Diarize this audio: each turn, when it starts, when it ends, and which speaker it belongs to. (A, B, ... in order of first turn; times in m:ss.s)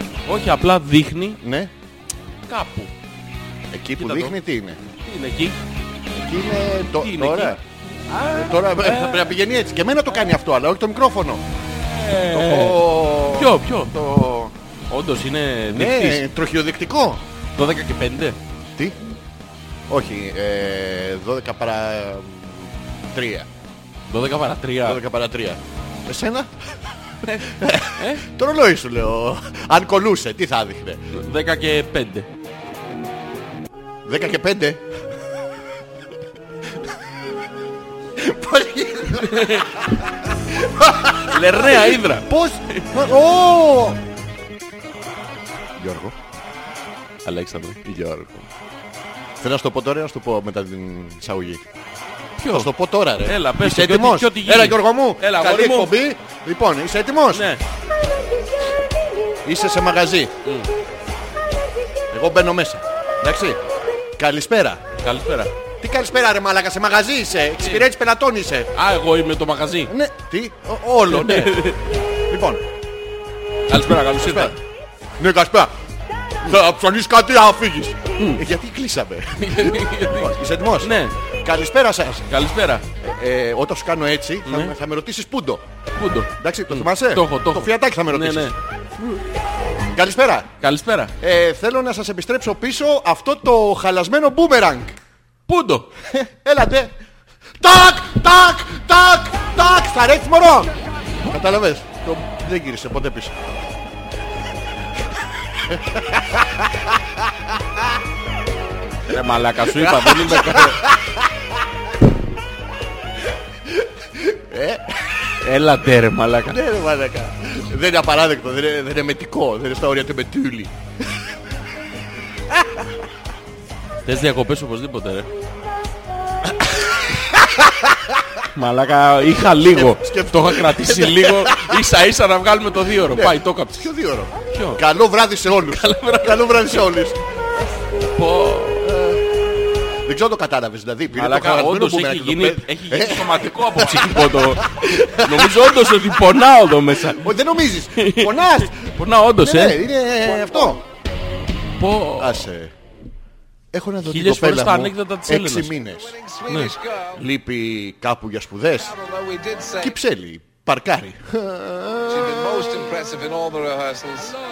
0:00.2-0:01.4 A
0:01.4-0:01.7 B
0:02.5-0:02.9 A
0:03.7-0:04.8 B
0:04.0-0:04.4 A
0:04.9-0:05.6 A
0:06.1-0:07.6 B
0:07.0-0:07.6 A
0:08.1-0:09.3 A
0:08.3-0:11.4 B
0:11.9-0:13.9 A
0:12.3-0:14.5 B
0:14.9-0:16.2 A
0:15.7-0:17.2 B
0:17.6-0:18.4 A
0:19.9-0:23.5 B
0:24.1-0:25.0 A
0:24.8-0:26.5 B
0:27.2-0:28.2 A
0:27.2-0:31.0 B
0:31.1-0:32.3 A
0:34.0-0:34.8 B
0:38.2-0:44.0 B
0:39.2-0:39.8 A
0:41.2-0:43.0 A
0:45.8-0:46.2 B
0:47.2-0:47.9 A
0:47.8-0:48.4 B
0:49.4-0:51.6 B
0:52.4-0:56.0 A
0:52.5-0:57.5 B
0:57.3-0:57.6 A
0:59.4-1:00.3 B
1:00.4-1:00.7 A
1:02.1-1:03.6 B
1:04.2-1:04.8 B
1:05.0-1:05.5 A
1:05.8-1:08.7 B
1:08.7-1:09.9 A
1:09.9-1:11.8 B
1:11.1-1:11.9 A
1:12.3-1:12.6 B
1:13.7-1:14.6 A
1:14.0-1:14.6 B
1:15.2-1:15.7 B
1:16.4-1:22.3 B
1:18.2-1:18.4 A
1:19.4-1:21.2 A
1:22.3-1:22.8 A
1:23.0-1:25.6 B
1:24.4-1:24.7 A
1:26.0-1:28.6 A
1:26.4-1:28.6 B
1:29.9-1:30.5 B
1:30.6-1:31.1 A
1:31.2-1:35.0 B
1:35.5-1:35.9 A
1:36.0-1:36.9 B
1:37.6-1:40.7 B
1:41.3-1:43.5 B
1:45.6-1:47.9 B
1:49.1-1:50.9 A
1:49.7-1:51.6 B
1:53.7-1:55.4 B
1:55.4-1:56.6 A
1:56.5-2:00.7 B
2:02.5-2:02.9 B
2:04.0-2:05.3 A
2:06.4-2:08.2 B
2:08.5-2:13.9 A
2:09.5-2:11.8 B
2:13.1-2:17.2 B
2:14.5-2:14.8 A
2:15.6-2:16.8 A
2:18.2-2:18.9 A
2:18.8-2:19.2 B
2:20.0-2:26.2 B
2:21.1-2:27.3 A
2:27.1-2:30.8 B
2:28.0-2:29.9 A
2:31.8-2:32.5 A
2:32.2-2:32.7 B
2:33.7-2:36.2 B
2:34.1-2:35.7 A
2:36.2-2:37.2 C
2:36.5-2:36.7 A
2:37.1-2:39.0 B
2:38.9-2:40.0 C
2:39.8-2:42.7 B
2:42.1-2:44.4 C